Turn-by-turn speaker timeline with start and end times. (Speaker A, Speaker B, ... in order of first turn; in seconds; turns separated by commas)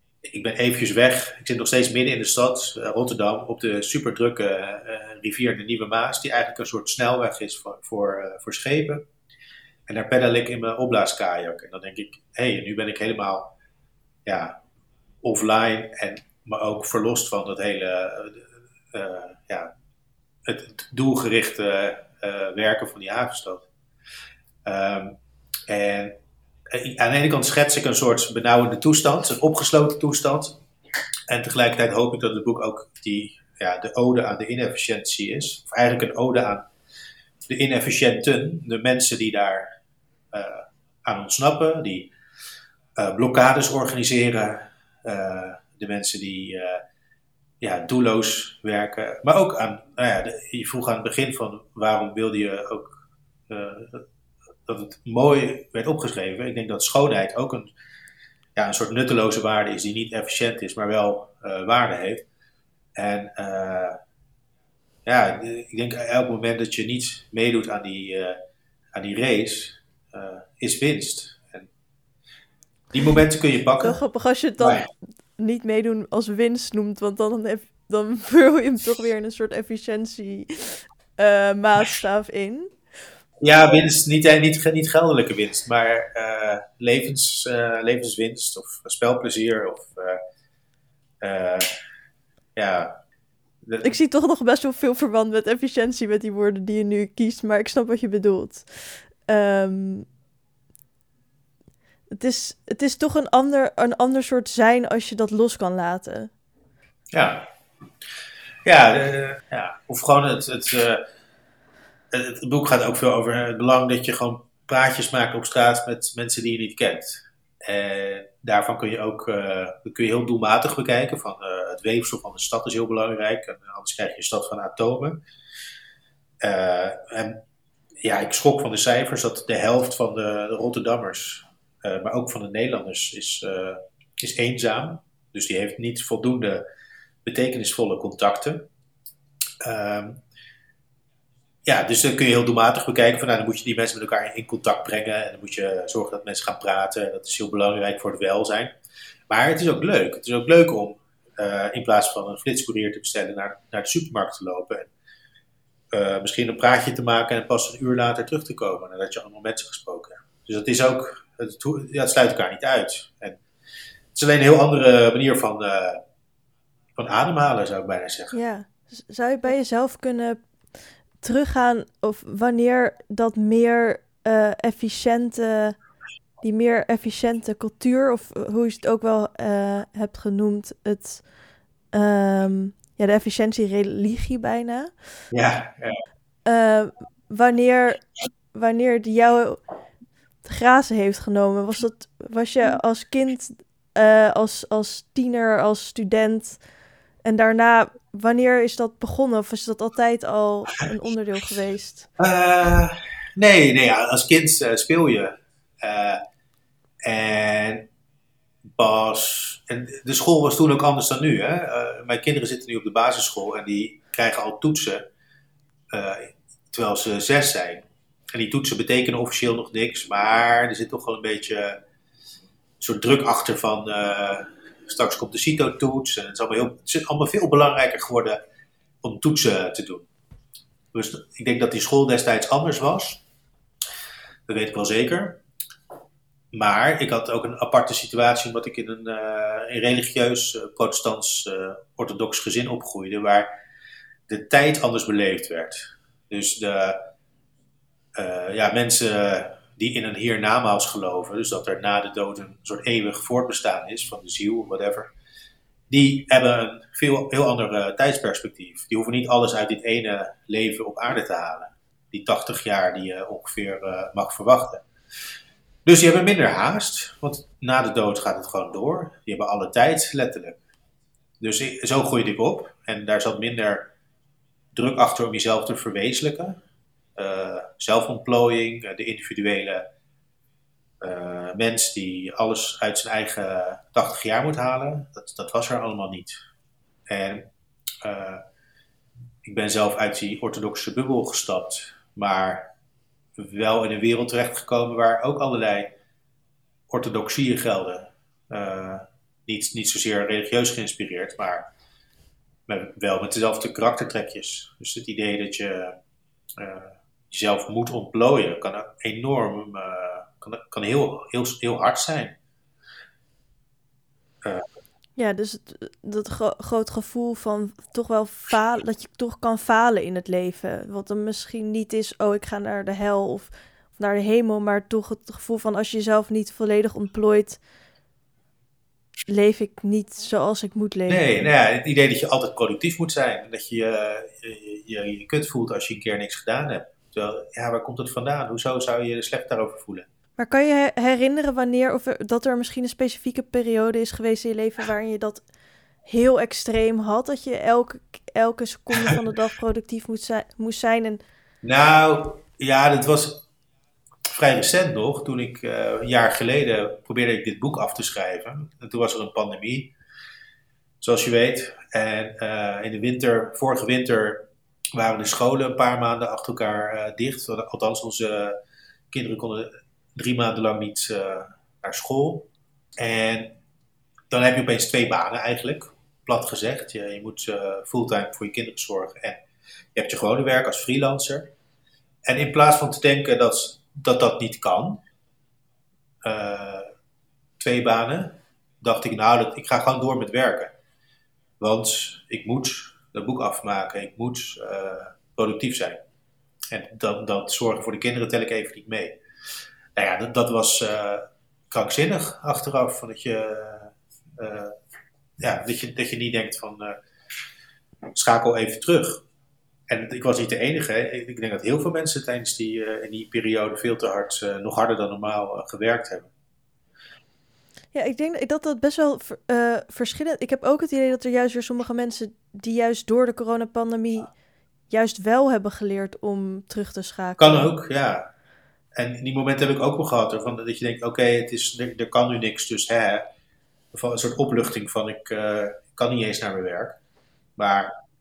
Speaker A: 0.2-9.0, Speaker A: 9.9-13.5, Speaker A: 14.3-14.6, Speaker A: 15.2-19.7, Speaker A: 20.4-23.7, Speaker A: 24.6-25.2, Speaker A: 25.7-26.1, Speaker A: 26.7-30.6, Speaker A: 31.3-36.7, Speaker A: 37.5-39.7, Speaker A: 40.3-42.1, Speaker A: 43.0-46.8, Speaker A: 47.6-52.9, Speaker A: 53.5-54.0, Speaker A: 54.7-57.7, Speaker A: 58.6-62.2, Speaker A: 63.0-64.0, Speaker A: 65.1-68.4, Speaker A: 68.9-71.7, Speaker A: 72.9-74.0, Speaker B: 73.8-74.9, Speaker A: 74.6-74.9, Speaker B: 75.4-82.7, Speaker A: 83.4-90.2, Speaker A: 91.2-91.7, Speaker A: 92.6-93.0, Speaker A: 93.6-94.0, Speaker B: 93.8-100.1, Speaker B: 102.1-106.3, Speaker A: 107.1-107.5, Speaker A: 108.7-111.0, Speaker A: 112.1-125.2, Speaker A: 126.4-127.4, Speaker A: 128.0-136.6, Speaker A: 137.2-138.7, Speaker A: 139.6-140.2, Speaker A: 141.7-148.7, Speaker A: 149.3-154.9, Speaker A: 155.9-163.4, Speaker A: 164.2-166.0, Speaker A: 167.0-168.4, Speaker B: 168.3-170.4, Speaker B: 171.2-175.8, Speaker B: 176.4-181.2, Speaker B: 181.9-184.9, Speaker A: 185.3-185.9, Speaker B: 186.5-189.6, Speaker B: 190.4-196.6, Speaker B: 197.2-202.1, Speaker A: 202.2-206.2, Speaker A: 207.0-207.9, Speaker A: 208.7-215.1, Speaker A: 215.9-221.8, Speaker A: 222.8-228.4, Speaker A: 229.0-230.1, Speaker A: 230.9-233.2, Speaker A: 234.5-235.4, Speaker A: 236.5-243.5, Speaker A: 244.3-247.0, Speaker A: 248.2-255.1, Speaker A: 255.9-264.8, Speaker A: 265.9-270.6, Speaker A: 271.4-273.9, Speaker A: 274.7-276.6, Speaker A: 277.2-279.8, Speaker A: 281.0-286.4, Speaker A: 287.1-287.4, Speaker A: 288.0-288.4, Speaker A: 289.4-292.7, Speaker A: 293.4-295.9, Speaker A: 296.9-301.7, Speaker A: 302.7-305.9, Speaker A: 306.6-312.4, Speaker B: 315.2-327.6, Speaker B: 329.3-331.4, Speaker A: 331.1-340.1, Speaker B: 340.4-345.4, Speaker B: 346.1-351.2, Speaker A: 351.6-353.4, Speaker A: 354.3-359.9, Speaker A: 361.0-368.6, Speaker A: 369.1-373.5, Speaker A: 374.3-379.4, Speaker A: 379.9-381.5, Speaker A: 382.3-385.0, Speaker A: 386.2-386.9, Speaker A: 387.6-390.7, Speaker A: 391.6-396.0, Speaker A: 396.7-399.2, Speaker A: 400.0-404.8, Speaker A: 405.4-406.9, Speaker A: 408.1-409.2, Speaker A: 409.9-416.3, Speaker B: 417.9-424.3, Speaker B: 424.9-427.7, Speaker A: 427.4-428.3, Speaker A: 429.0-433.3, Speaker A: 433.9-437.0, Speaker A: 437.6-437.9